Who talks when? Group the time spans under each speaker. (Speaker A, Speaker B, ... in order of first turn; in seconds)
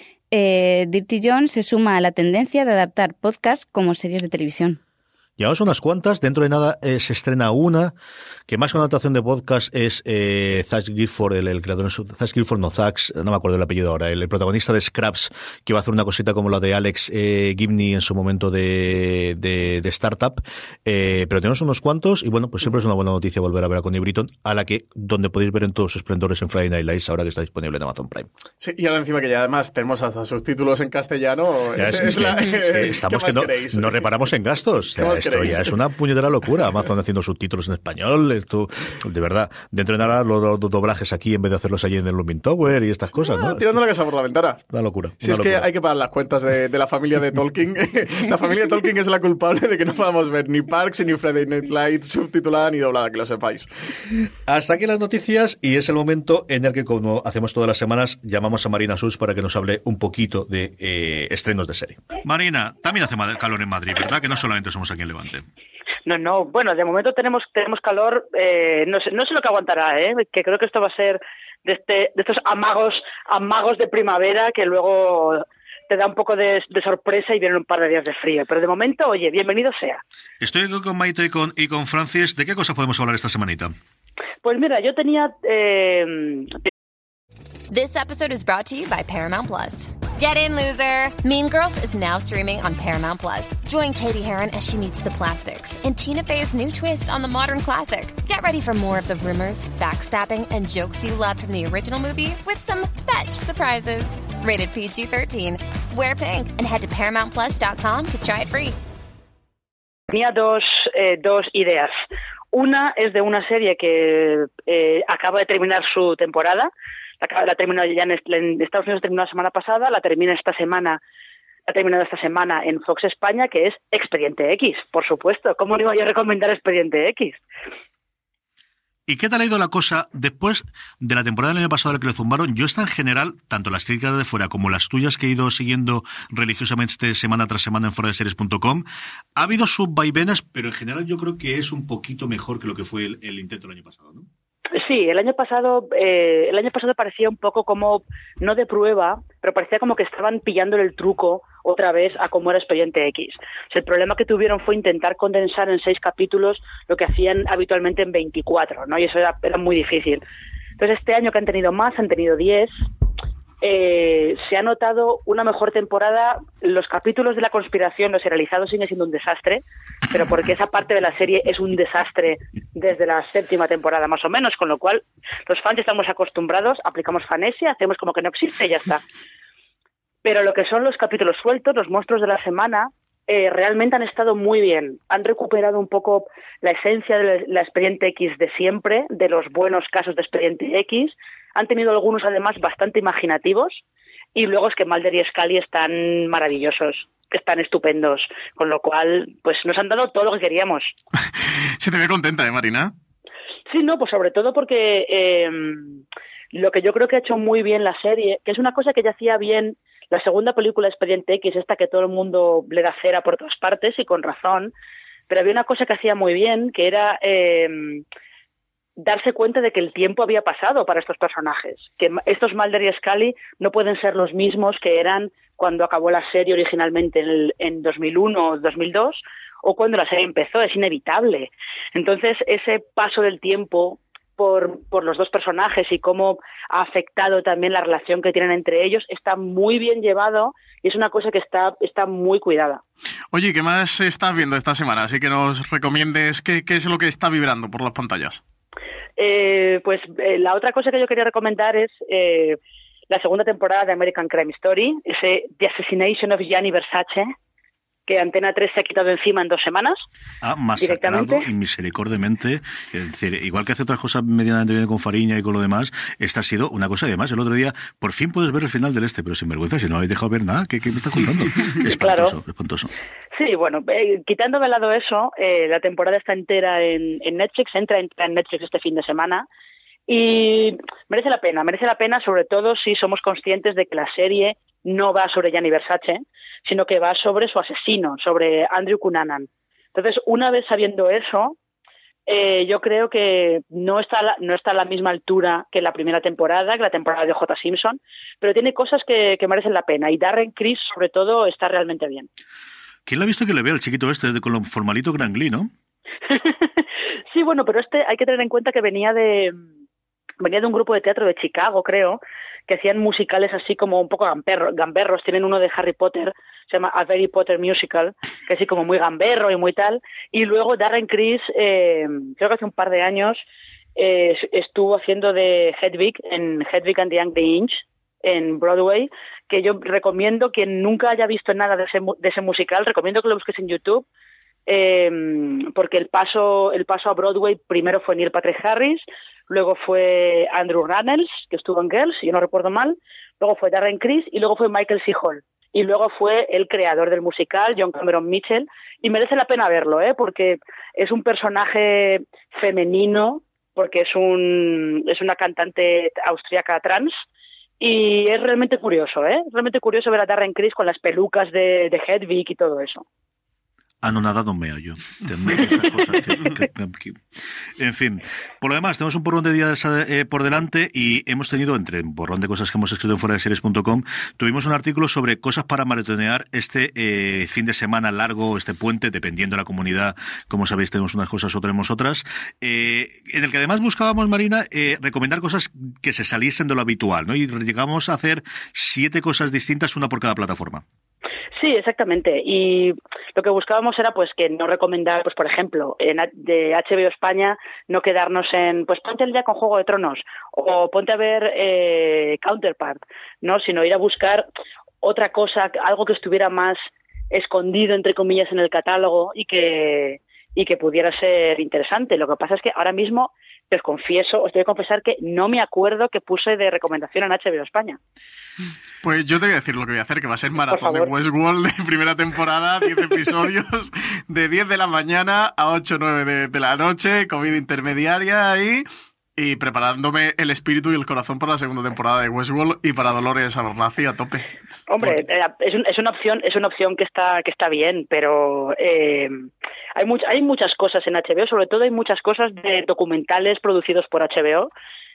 Speaker A: 0.3-4.8
Speaker B: 5.4-8.0, 8.5-28.3, 31.8-43.8, 44.7-45.7, 54.5-65.5, 80.4-83.7, 129.1-138.8, 139.4-144.3, 260.4-272.9, 303.1-305.7, 364.0-367.2, 367.8-390.8
Speaker C: 28.6-34.3, 34.9-35.8, 43.2-44.6, 45.2-53.7, 201.8-202.9, 243.3-248.4, 419.0-428.9, 429.4-434.5
Speaker D: 66.1-80.0, 84.4-86.6, 110.1-112.0, 112.5-116.7, 117.2-121.0, 121.7-127.4, 144.8-160.2, 160.8-162.7, 163.6-179.0, 180.2-193.8, 194.3-200.9, 203.7-206.0, 206.5-214.7, 215.3-218.0, 219.0-242.8, 249.2-252.6, 253.1-257.3, 258.1-260.0, 260.8-261.5, 271.9-272.3, 273.3-279.5, 280.1-291.6, 292.3-302.3, 306.3-306.6, 307.3-309.6, 310.4-323.4, 324.0-334.1, 334.7-357.2, 357.8-363.0, 391.6-404.5, 405.0-418.0, 420.7-421.1, 434.9-444.7
Speaker E: 87.7-108.8